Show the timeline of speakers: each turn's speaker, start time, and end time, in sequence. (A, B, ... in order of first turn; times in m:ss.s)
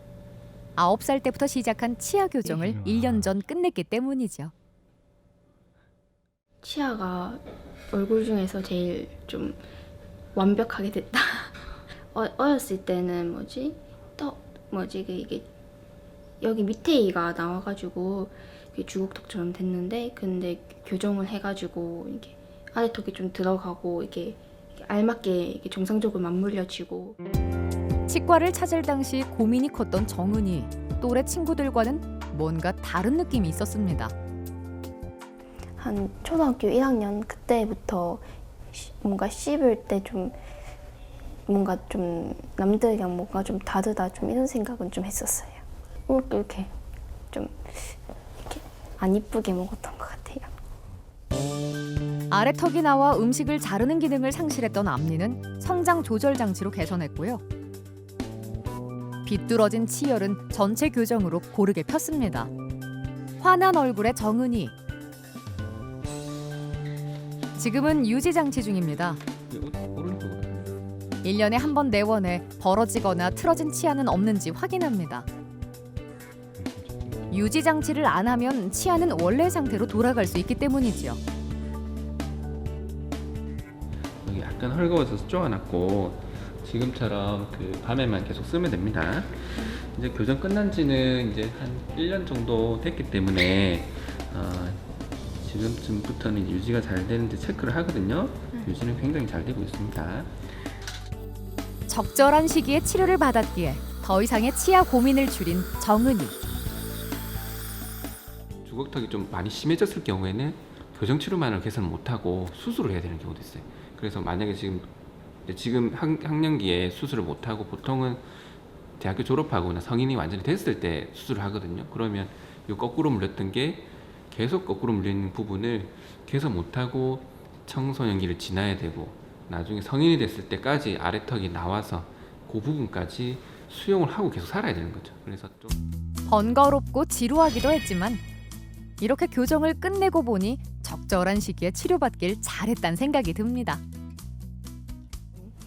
0:00.8-0:04.5 A
0:06.6-0:09.6 B
0:10.3-0:11.5 B
0:12.1-0:15.5 B
0:16.4-0:27.2 B
0:28.1-0:34.1 A
0:35.8-0:40.4 B
0:41.5-0:46.7 B
0:47.3-0:50.5 B
0:52.3-0:57.4 A
0:59.2-1:02.5 A
1:03.4-1:04.7 A
1:07.6-1:09.2 A
1:09.5-1:10.9 C
1:11.2-1:15.3 A
1:16.6-1:17.2 C
1:17.3-1:21.2 A
1:24.2-1:40.6 C
1:41.9-1:46.3 A
1:48.6-1:54.9 C
1:55.5-1:58.4 C
1:59.0-2:15.8 C
2:16.3-2:18.2 A
2:19.0-2:23.8 A